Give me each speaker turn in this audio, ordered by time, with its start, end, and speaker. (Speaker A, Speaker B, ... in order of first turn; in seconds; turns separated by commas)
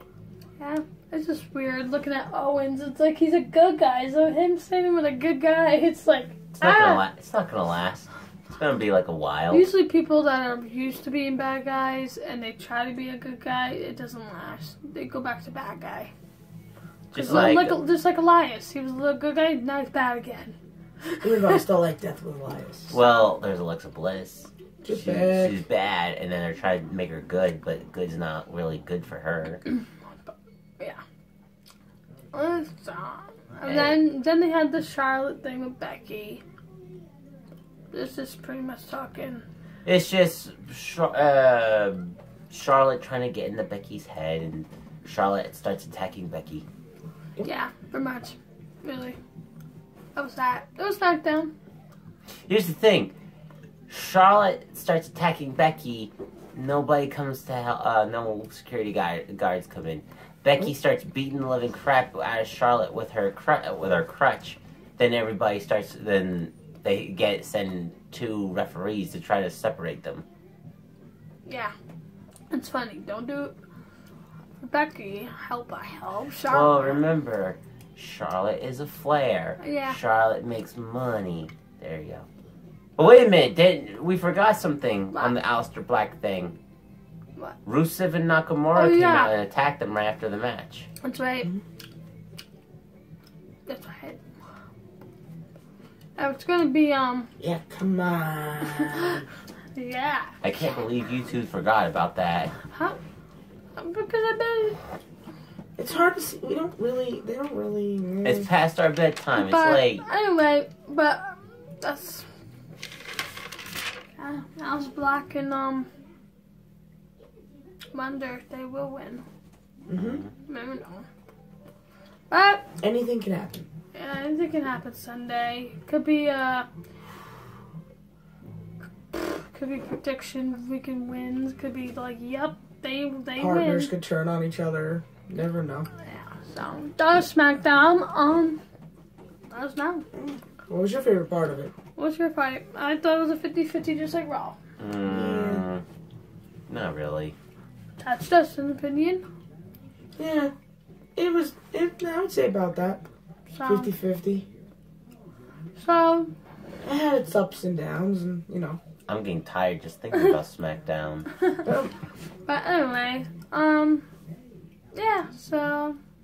Speaker A: 0.6-7.0, Speaker B: 6.6-9.7, Speaker A: 9.5-16.1, Speaker B: 17.1-17.8, Speaker A: 17.1-21.6, Speaker C: 21.2-22.9, Speaker B: 22.9-29.6, Speaker A: 23.0-23.3, Speaker C: 24.8-25.6, Speaker A: 29.7-31.0, Speaker A: 32.3-36.4, Speaker B: 33.6-34.0, Speaker A: 37.9-39.5, Speaker B: 39.9-46.7, Speaker A: 47.4-49.2, Speaker A: 50.1-51.5, Speaker B: 52.5-53.1, Speaker B: 53.9-70.2, Speaker A: 71.5-71.7, Speaker A: 72.5-73.6, Speaker A: 74.6-77.0, Speaker B: 76.5-82.3, Speaker A: 79.6-80.0, Speaker B: 83.0-86.6, Speaker B: 87.7-90.9, Speaker A: 88.7-89.3, Speaker A: 91.0-91.5, Speaker A: 93.7-94.2, Speaker A: 96.2-97.3, Speaker C: 97.4-99.2, Speaker A: 98.9-99.2, Speaker A: 99.8-100.4, Speaker B: 100.4-102.5, Speaker A: 102.7-103.0, Speaker A: 103.8-104.8, Speaker C: 105.8-108.5, Speaker B: 108.2-110.1, Speaker A: 109.4-112.3, Speaker A: 114.2-115.9, Speaker A: 117.9-119.2, Speaker C: 119.9-120.2, Speaker B: 120.0-120.3, Speaker A: 120.5-121.1, Speaker A: 122.3-122.7, Speaker C: 122.8-123.7, Speaker A: 123.9-126.7, Speaker A: 129.1-133.9, Speaker C: 133.4-135.9, Speaker A: 136.0-138.6, Speaker A: 139.5-140.1, Speaker C: 140.1-141.7, Speaker A: 142.0-144.6, Speaker B: 144.8-145.8, Speaker C: 145.1-145.7, Speaker B: 146.7-147.3, Speaker A: 148.0-149.2, Speaker C: 150.2-150.5, Speaker C: 151.2-153.1, Speaker A: 153.5-153.9, Speaker C: 153.7-154.5, Speaker A: 155.8-156.3, Speaker C: 156.8-158.8, Speaker B: 159.1-161.3, Speaker C: 161.6-161.9, Speaker A: 162.5-164.1, Speaker A: 164.9-166.0